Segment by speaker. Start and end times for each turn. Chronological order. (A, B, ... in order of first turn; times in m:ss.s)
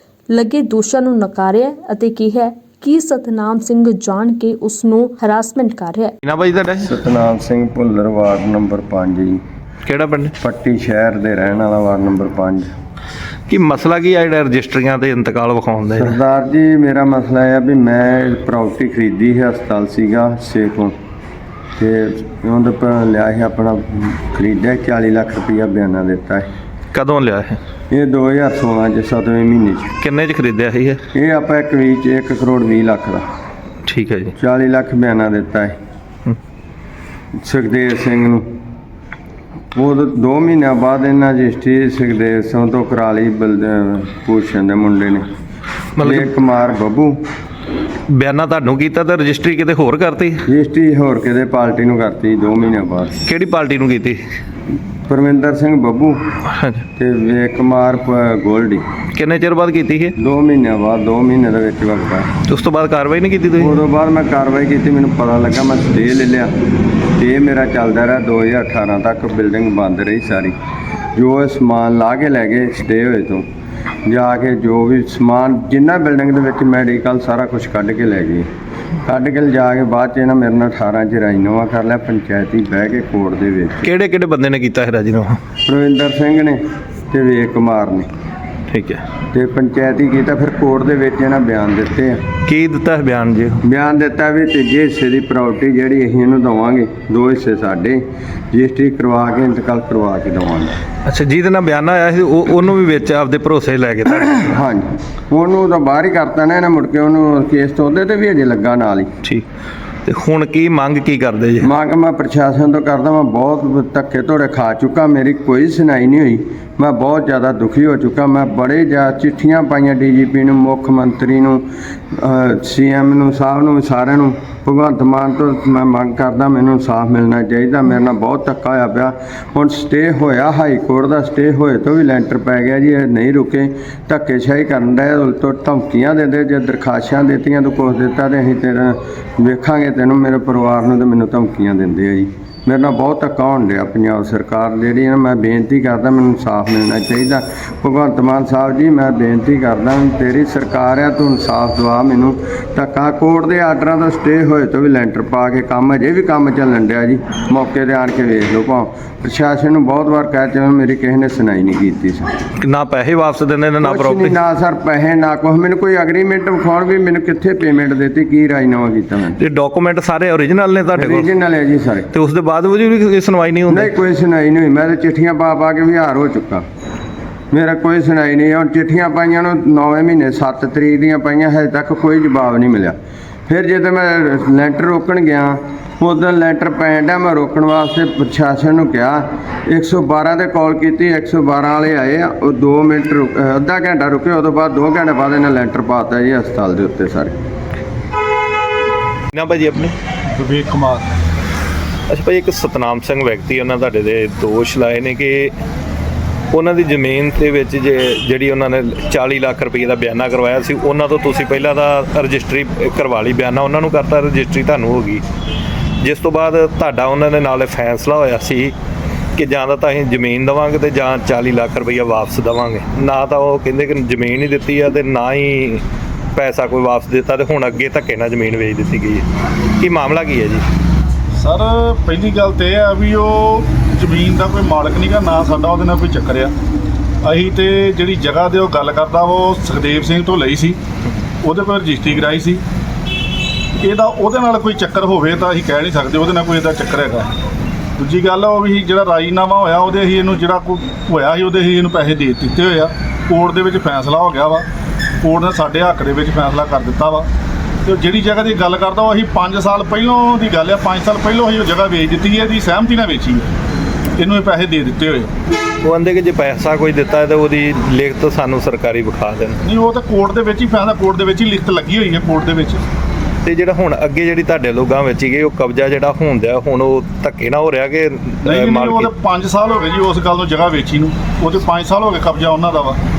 0:00.3-0:06.1 A
0:06.2-0:06.9 B
0:06.8-0:09.4 C
0:09.8-0:10.3 B
0:10.4-0:12.7 C
0:13.5-0:16.2 B
0:16.0-0:20.9 C
0:21.8-0:26.5 C
0:26.9-0:27.6 B
0:27.9-0:29.9 C
0:30.0-0:31.0 B
0:31.1-0:33.2 C
0:33.8-0:34.3 B
0:34.4-0:35.7 C
0:37.4-0:38.5 C
0:39.7-0:45.2 C
0:46.0-0:46.3 B
0:46.0-0:47.2 C
0:48.1-0:50.5 B
0:50.4-0:53.1 C
0:53.2-0:54.2 B
0:55.1-0:56.2 C
0:56.6-0:56.8 B
0:57.0-0:58.8 C
0:59.1-1:00.1 B
1:00.2-1:02.3 C
1:02.4-1:03.8 B
1:03.6-1:06.5 C
1:07.2-1:10.5 C
1:11.1-1:13.4 C
1:14.0-1:18.5 C
1:19.0-1:23.8 C
1:23.8-1:25.4 B
1:25.6-1:28.1 C
1:28.7-1:29.0 B
1:29.3-1:32.2 C
1:32.4-1:33.6 B
1:33.6-1:40.8 C
1:41.0-1:44.5 B
1:44.4-1:49.1 C
1:50.0-1:51.7 B
1:51.6-2:42.3 C
2:42.6-2:44.4 B
2:43.8-2:49.4 C
2:49.4-2:51.3 B
2:50.9-2:52.1 C
2:52.1-2:53.9 B
2:53.7-2:56.6 C
2:57.5-3:03.0 C
3:03.5-3:17.3 C
3:19.3-3:20.0 B
3:20.3-3:21.1 D
3:22.1-3:25.5 B
3:26.5-3:35.2 B
3:36.0-3:38.7 B
3:39.4-3:45.8 B
3:46.3-3:49.2 B
3:49.8-3:50.6 B
3:51.4-3:56.5 D
3:57.2-4:00.8 D
4:01.4-4:02.6 D
4:03.8-4:07.3 D
4:08.0-4:14.7 D
4:15.2-4:17.3 D
4:17.8-4:23.5 D
4:24.2-4:25.3 D
4:25.8-4:29.6 B
4:29.6-4:32.8 D
4:33.4-4:39.1 B
4:38.4-4:43.0 D